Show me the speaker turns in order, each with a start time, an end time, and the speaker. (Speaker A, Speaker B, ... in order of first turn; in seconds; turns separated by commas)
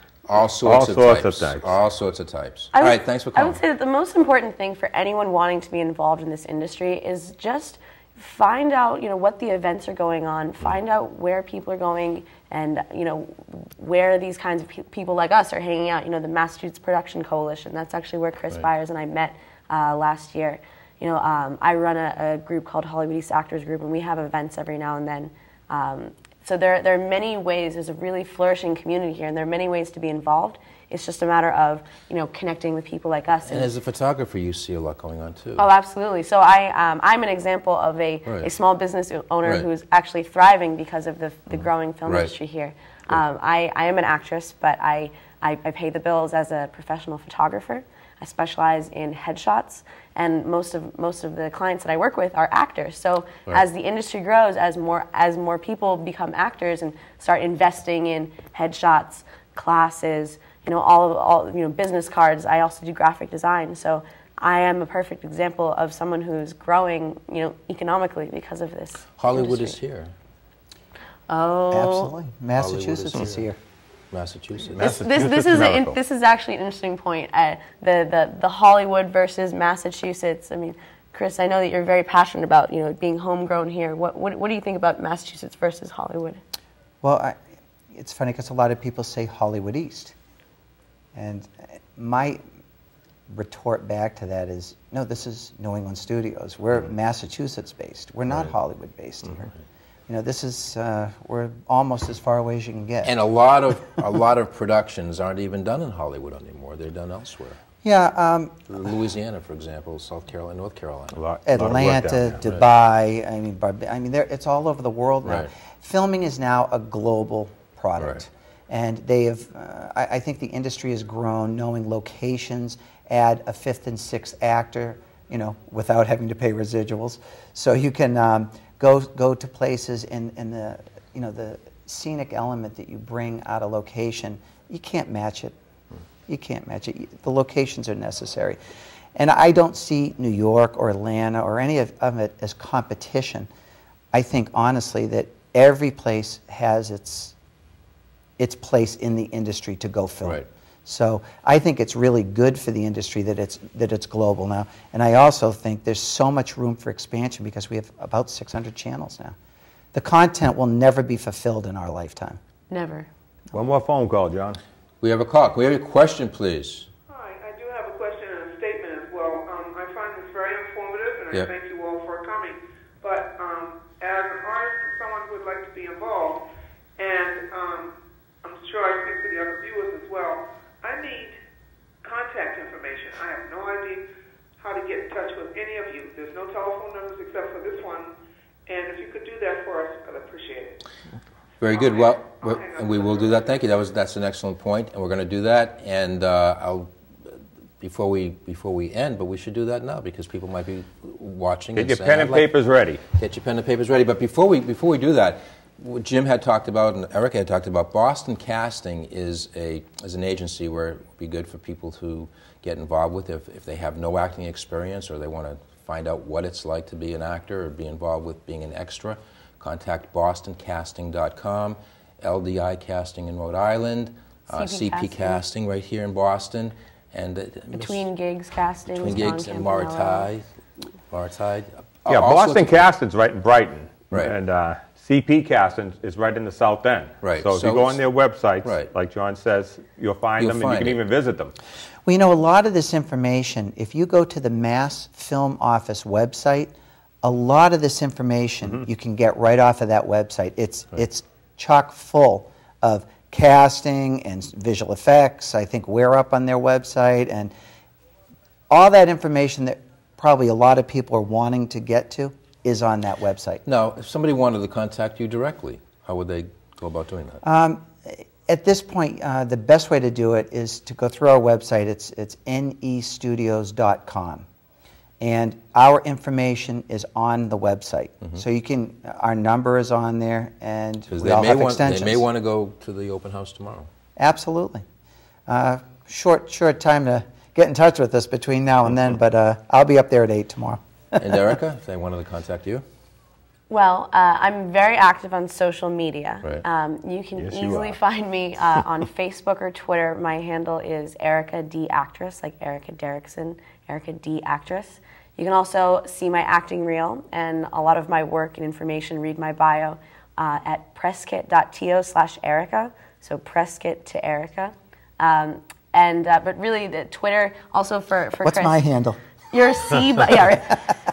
Speaker A: 0.3-3.6, Speaker B: 0.6-1.8, Speaker C: 2.7-33.7, Speaker A: 33.4-35.6, Speaker C: 35.6-69.8, Speaker A: 38.2-38.5, Speaker A: 41.5-42.3, Speaker A: 69.2-70.1, Speaker C: 71.3-72.1, Speaker D: 71.7-73.6, Speaker A: 72.5-73.4, Speaker A: 74.1-75.2, Speaker B: 74.7-76.0, Speaker C: 74.8-86.4, Speaker D: 87.0-87.3, Speaker D: 87.9-90.1, Speaker D: 91.1-92.4, Speaker D: 93.3-99.5, Speaker D: 100.1-103.2, Speaker A: 103.0-107.6, Speaker D: 107.8-108.9, Speaker A: 108.7-111.2, Speaker B: 111.1-112.4, Speaker D: 111.5-135.6, Speaker A: 115.2-115.5, Speaker D: 136.3-138.6, Speaker D: 139.1-143.5, Speaker D: 144.1-147.3, Speaker D: 148.4-159.3, Speaker D: 159.9-162.4, Speaker C: 162.7-163.1, Speaker B: 163.5-164.6, Speaker A: 165.0-166.9, Speaker E: 167.1-176.4, Speaker E: 177.0-181.4, Speaker E: 182.0-184.1, Speaker E: 184.6-188.1, Speaker E: 188.7-190.8, Speaker A: 191.6-202.5, Speaker E: 191.7-193.5, Speaker B: 201.7-203.0, Speaker A: 203.1-228.0, Speaker C: 224.5-225.4, Speaker C: 227.7-230.3, Speaker A: 228.9-230.5, Speaker A: 231.1-232.8, Speaker B: 232.1-241.5, Speaker A: 234.1-234.3, Speaker A: 237.2-238.0, Speaker A: 238.6-238.9, Speaker A: 240.4-241.0, Speaker D: 242.0-257.5, Speaker D: 258.7-263.6, Speaker A: 263.6-267.4, Speaker D: 267.4-274.5, Speaker D: 275.2-282.2, Speaker A: 281.1-283.9, Speaker D: 284.2-284.8, Speaker D: 285.5-291.4, Speaker A: 291.2-292.8, Speaker C: 293.7-318.8, Speaker B: 297.4-298.0, Speaker D: 318.4-319.2, Speaker C: 319.5-320.9